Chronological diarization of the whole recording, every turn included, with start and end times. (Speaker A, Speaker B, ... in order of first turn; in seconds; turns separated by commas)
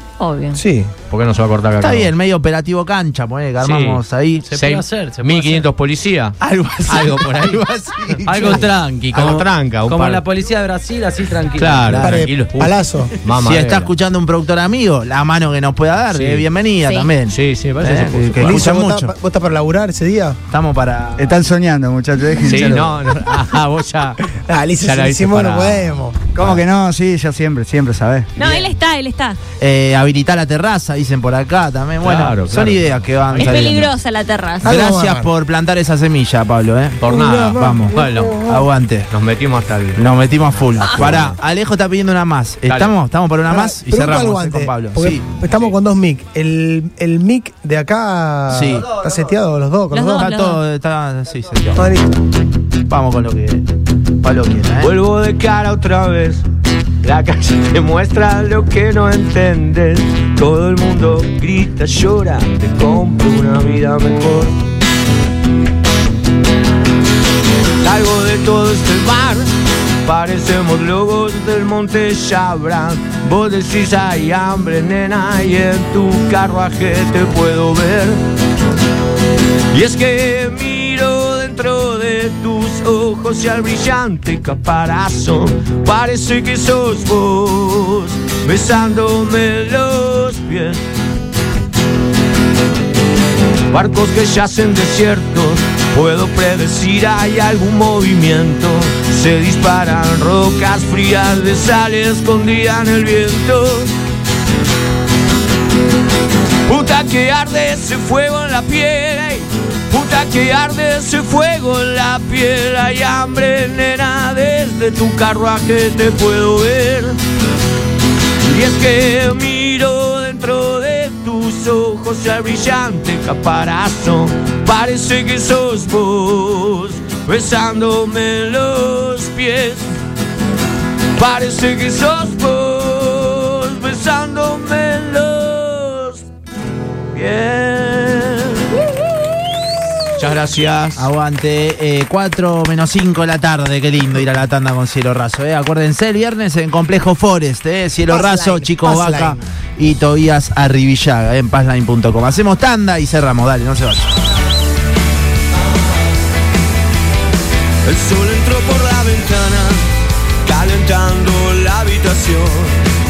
Speaker A: 0.2-0.6, Speaker B: 0.5-0.9, Speaker C: 1.1-2.1, Speaker D: 1.8-4.5, Speaker C: 3.6-4.0, Speaker E: 4.5-5.7, Speaker C: 4.5-10.2, Speaker D: 6.4-8.6, Speaker E: 8.2-12.1, Speaker C: 11.6-13.9, Speaker D: 11.8-12.3, Speaker B: 12.0-13.1, Speaker D: 13.4-19.1, Speaker C: 16.1-16.4, Speaker A: 16.8-17.1, Speaker C: 17.3-18.6, Speaker B: 18.4-20.4, Speaker D: 20.5-21.4, Speaker F: 21.2-22.9, Speaker D: 22.5-23.0, Speaker C: 22.5-24.3, Speaker B: 24.3-26.2, Speaker C: 24.8-26.1, Speaker F: 26.3-28.3, Speaker D: 26.4-26.6, Speaker A: 28.4-29.4, Speaker D: 29.6-33.9, Speaker C: 32.0-33.9, Speaker A: 33.4-34.8, Speaker B: 34.6-35.3, Speaker D: 34.6-39.1, Speaker C: 37.0-38.4, Speaker B: 37.0-38.6, Speaker C: 39.1-40.0, Speaker D: 40.0-45.2, Speaker C: 40.7-41.4, Speaker C: 42.6-42.9, Speaker B: 43.5-50.3, Speaker D: 48.5-48.9, Speaker A: 49.9-50.6, Speaker D: 50.1-51.9, Speaker B: 51.7-52.2, Speaker D: 52.9-53.6, Speaker D: 54.2-54.9, Speaker G: 54.8-56.4, Speaker G: 57.0-64.5, Speaker G: 67.8-69.5, Speaker G: 70.0-78.2, Speaker G: 79.7-90.8, Speaker G: 93.7-103.9, Speaker G: 106.7-117.2, Speaker G: 118.4-129.9, Speaker G: 131.2-136.2, Speaker G: 137.1-138.9, Speaker C: 140.2-141.1, Speaker D: 140.9-154.1, Speaker B: 148.1-149.4, Speaker G: 157.8-162.8